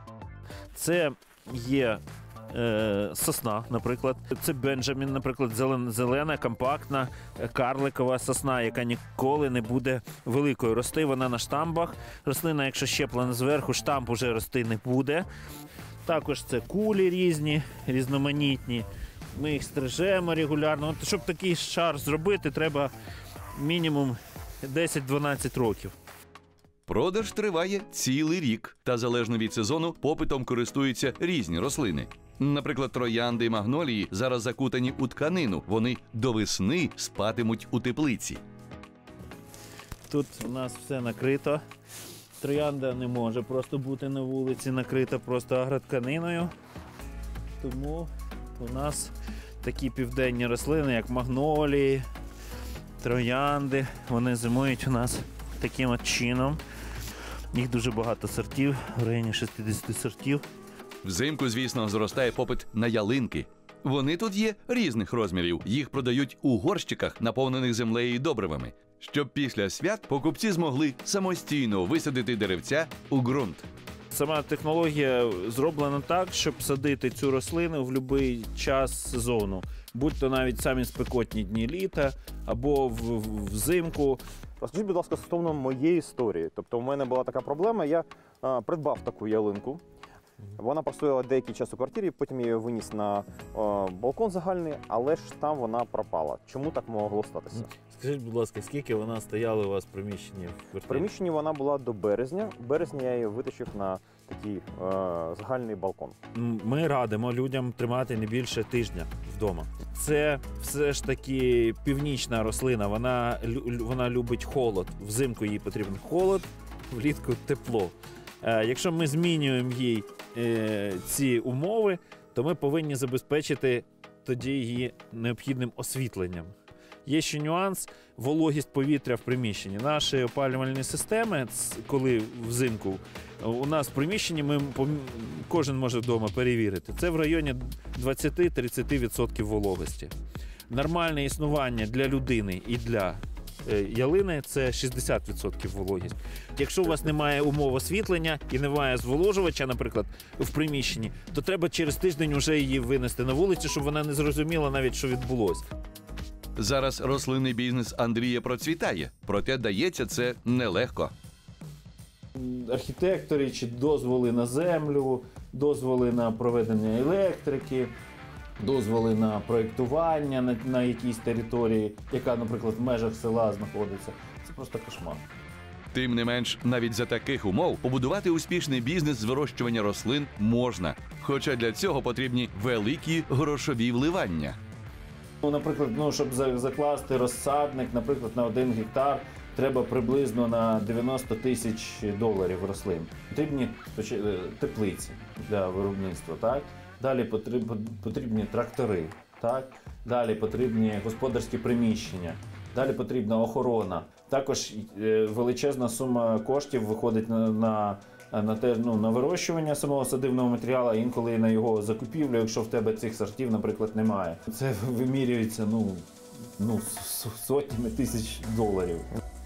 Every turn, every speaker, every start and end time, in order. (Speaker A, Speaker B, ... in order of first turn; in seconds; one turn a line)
Speaker A: 0.7-15.2
Speaker A: 16.0-22.9
Speaker A: 23.6-25.9
Speaker B: 26.9-38.4
Speaker A: 40.1-41.6
Speaker A: 42.4-46.5
Speaker A: 47.6-52.0
Speaker A: 53.0-56.6
Speaker A: 57.5-60.4
Speaker B: 61.0-73.7
Speaker A: 74.1-84.2
Speaker C: 84.6-89.8
Speaker C: 90.6-97.7
Speaker A: 97.5-101.1
Speaker C: 100.9-106.1
Speaker A: 106.3-126.5
Speaker A: 127.0-140.1
Speaker A: 140.7-155.6
Speaker B: 156.6-161.1
Speaker A: 162.3-167.9
Speaker A: 168.6-175.2
Speaker B: 175.9-184.6
Speaker A: 185.4-216.0
Speaker A: 216.6-219.1